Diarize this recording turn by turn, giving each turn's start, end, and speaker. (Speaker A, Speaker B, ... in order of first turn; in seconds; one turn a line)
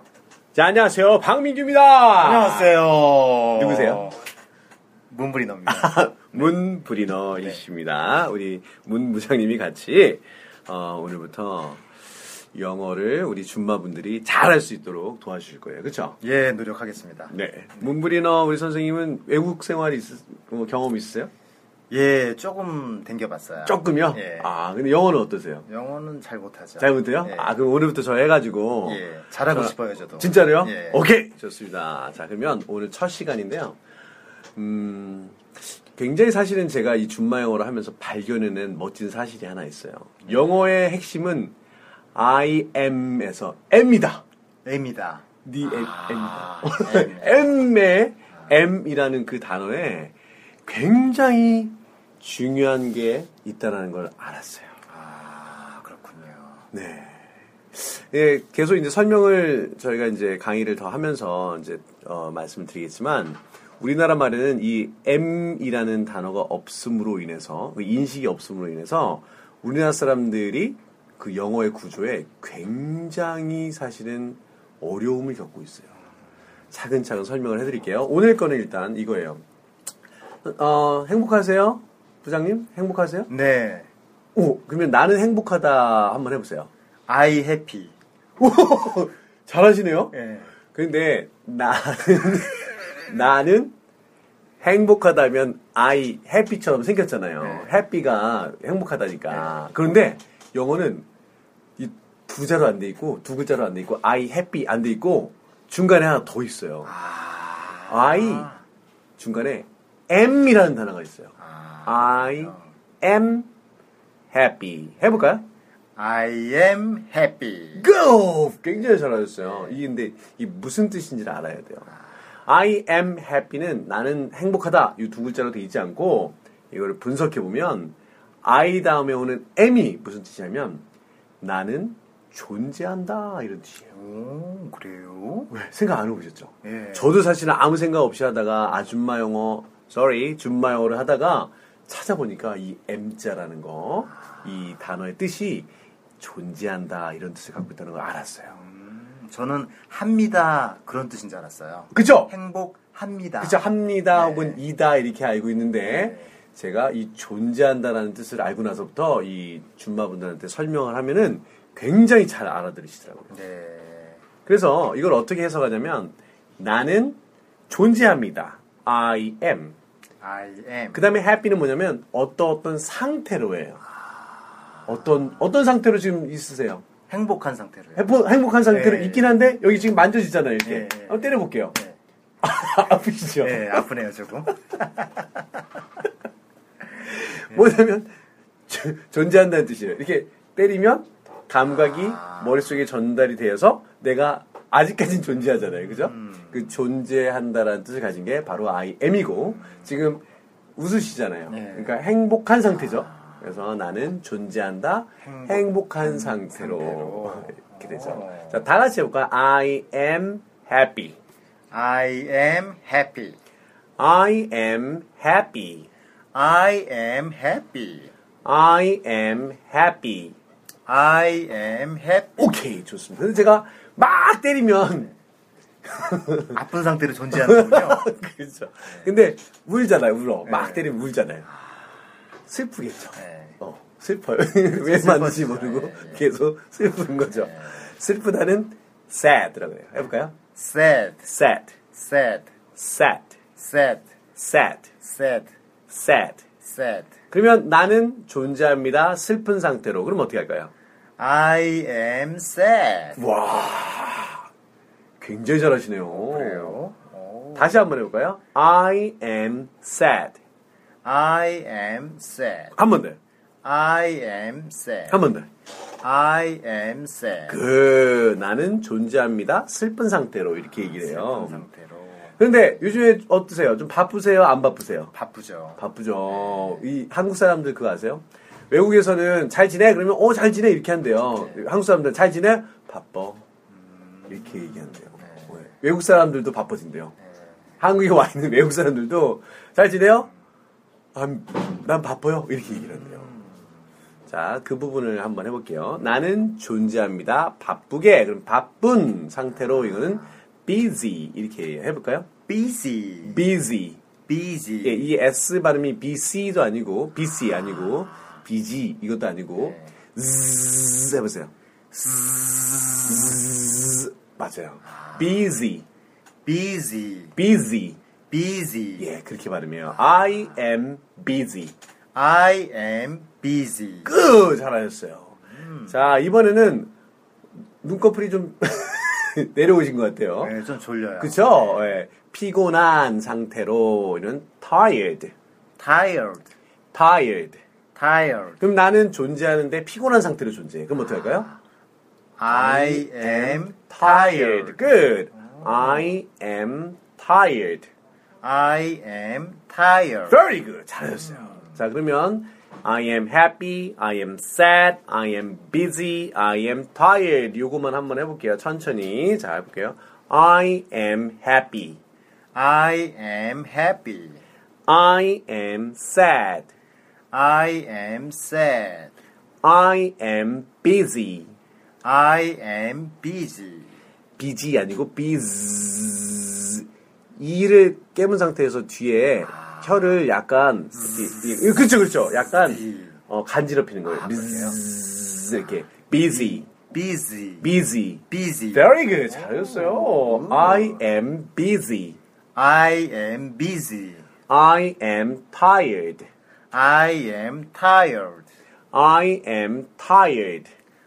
Speaker A: 0.5-2.7
Speaker B: 2.2-4.2
Speaker A: 3.6-4.1
Speaker B: 5.1-6.5
Speaker A: 5.7-11.8
Speaker A: 12.5-16.2
Speaker B: 16.2-17.4
Speaker A: 17.3-21.3
Speaker B: 21.9-24.5
Speaker A: 23.6-25.7
Speaker B: 25.7-27.5
Speaker A: 26.8-33.8
Speaker B: 28.8-31.0
Speaker A: 34.5-41.5
Speaker A: 42.1-44.2
Speaker B: 44.6-47.5
Speaker A: 45.4-50.1
Speaker A: 50.6-54.7
Speaker B: 54.9-56.7
Speaker A: 56.7-57.2
Speaker A: 57.7-75.9
Speaker A: 76.7-79.4
Speaker A: 80.4-83.3
Speaker B: 83.3-83.9
Speaker A: 84.3-86.7
Speaker B: 87.1-87.9
Speaker A: 88.4-90.1
Speaker B: 90.1-90.5
Speaker A: 90.7-93.7
Speaker A: 94.6-101.1
Speaker B: 97.4-97.7
Speaker A: 101.8-106.9
Speaker B: 106.8-108.6
Speaker A: 107.9-108.5
Speaker A: 109.2-111.3
Speaker B: 111.4-112.7
Speaker A: 111.8-113.5
Speaker A: 114.3-115.4
Speaker B: 116.0-117.9
Speaker A: 117.7-121.9
Speaker A: 122.5-130.8
Speaker A: 131.4-133.9
Speaker B: 133.9-135.5
Speaker A: 135.5-145.7
Speaker B: 136.6-137.1
Speaker A: 146.2-148.6
Speaker B: 148.5-154.6
Speaker A: 151.9-152.3
Speaker A: 153.4-163.3
Speaker B: 163.3-164.2
Speaker A: 164.4-167.2
Speaker A: 167.7-169.8
Speaker B: 170.2-171.1
Speaker A: 170.9-173.8
Speaker A: 174.9-176.8
Speaker B: 177.1-178.1
Speaker A: 177.9-181.8
Speaker B: 178.7-179.3
Speaker B: 180.6-182.0
Speaker A: 182.4-183.7
Speaker B: 183.4-185.3
Speaker A: 187.1-188.1
Speaker A: 188.7-200.2
Speaker B: 196.1-196.5
Speaker A: 200.8-211.2
Speaker B: 201.5-201.9
Speaker B: 205.2-208.6
Speaker B: 211.7-213.4
Speaker A: 214.0-215.9
Speaker B: 216.3-218.1
Speaker A: 218.4-220.4
Speaker B: 220.9-222.5
Speaker A: 222.4-225.1
Speaker A: 225.8-226.6
Speaker B: 226.5-228.1
Speaker A: 227.3-231.5
Speaker B: 230.5-230.9
Speaker A: 232.5-240.3
Speaker B: 233.2-233.6
Speaker B: 234.8-236.2
Speaker B: 240.5-241.3
Speaker A: 241.2-241.7
Speaker B: 241.9-242.5
Speaker A: 242.8-243.3
Speaker B: 243.6-244.1
Speaker A: 244.3-244.9
Speaker B: 245.0-245.5
Speaker A: 245.9-246.4
Speaker B: 246.6-247.1
Speaker A: 247.3-250.7
Speaker B: 251.2-253.2
Speaker A: 253.2-254.4
Speaker A: 255.2-256.8
Speaker B: 256.1-257.7
Speaker A: 257.6-260.4
Speaker B: 261.0-262.7
Speaker A: 262.8-263.2
Speaker B: 263.6-265.2
Speaker A: 265.1-265.5
Speaker B: 266.0-267.6
Speaker A: 267.5-271.6
Speaker B: 270.7-272.4
Speaker A: 272.4-275.1
Speaker B: 275.1-276.8
Speaker A: 275.8-283.4
Speaker B: 284.0-284.3
Speaker A: 284.3-287.1
Speaker B: 285.2-285.6
Speaker A: 287.8-290.3
Speaker A: 291.1-293.4
Speaker A: 294.3-302.3
Speaker B: 302.5-303.4
Speaker A: 303.2-304.0
Speaker B: 304.2-305.1
Speaker A: 304.8-311.5
Speaker B: 311.9-313.4
Speaker A: 313.1-315.8
Speaker B: 314.9-315.2
Speaker B: 316.4-317.3
Speaker A: 317.4-318.0
Speaker B: 318.3-319.1
Speaker A: 319.0-321.7
Speaker B: 322.1-324.1
Speaker A: 324.0-325.4
Speaker B: 325.5-326.0
Speaker A: 325.9-326.9
Speaker A: 327.8-330.5
Speaker B: 330.4-331.9
Speaker A: 331.2-335.3
Speaker B: 335.8-336.5
Speaker A: 336.9-337.6
Speaker B: 337.9-338.6
Speaker A: 338.6-341.5
Speaker B: 341.2-341.5
Speaker B: 342.4-346.1
Speaker A: 342.5-347.9
Speaker B: 348.4-350.4
Speaker A: 350.3-362.0
Speaker B: 362.5-364.4
Speaker A: 364.9-366.7
Speaker B: 367.3-369.1
Speaker A: 369.6-371.5
Speaker B: 372.0-374.0
Speaker A: 374.4-386.7
Speaker B: 382.7-383.1
Speaker B: 384.0-384.8
Speaker B: 386.3-387.7
Speaker A: 387.6-392.2
Speaker B: 388.3-391.0
Speaker B: 392.5-394.2
Speaker A: 394.5-396.3
Speaker B: 396.7-398.4
Speaker A: 398.9-400.7